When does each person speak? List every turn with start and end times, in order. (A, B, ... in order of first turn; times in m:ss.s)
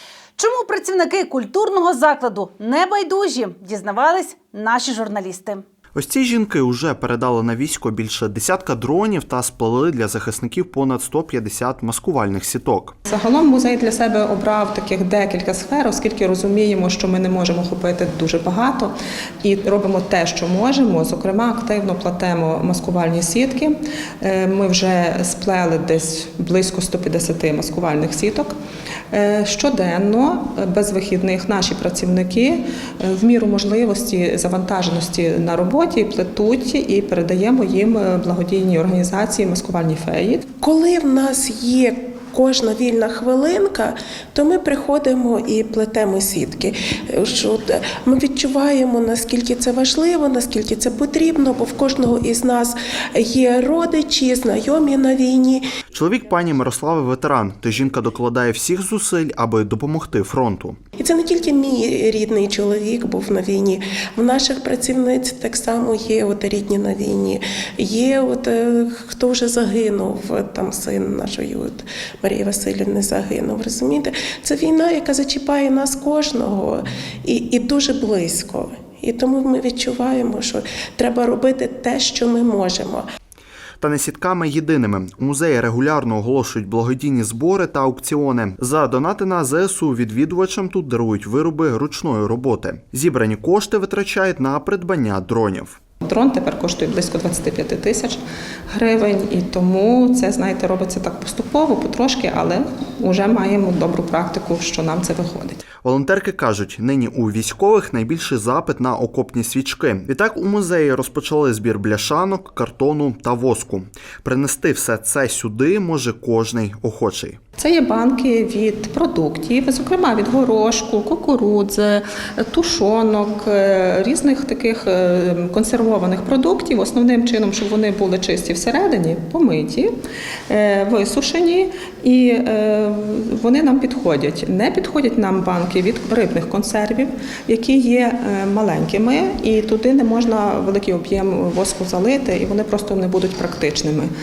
0:00.4-0:05.6 A
0:06.0-0:13.0 B
0:13.1-0:18.9 C
0:19.4-0:28.5 C
0:29.1-0:40.5 C
0:40.6-0:55.7 D
0:55.9-1:00.8 B
1:01.0-1:23.0 D
1:23.8-1:35.8 B
1:36.0-1:45.6 C
1:45.8-1:57.4 B
1:57.6-2:09.9 C
2:10.5-2:24.1 C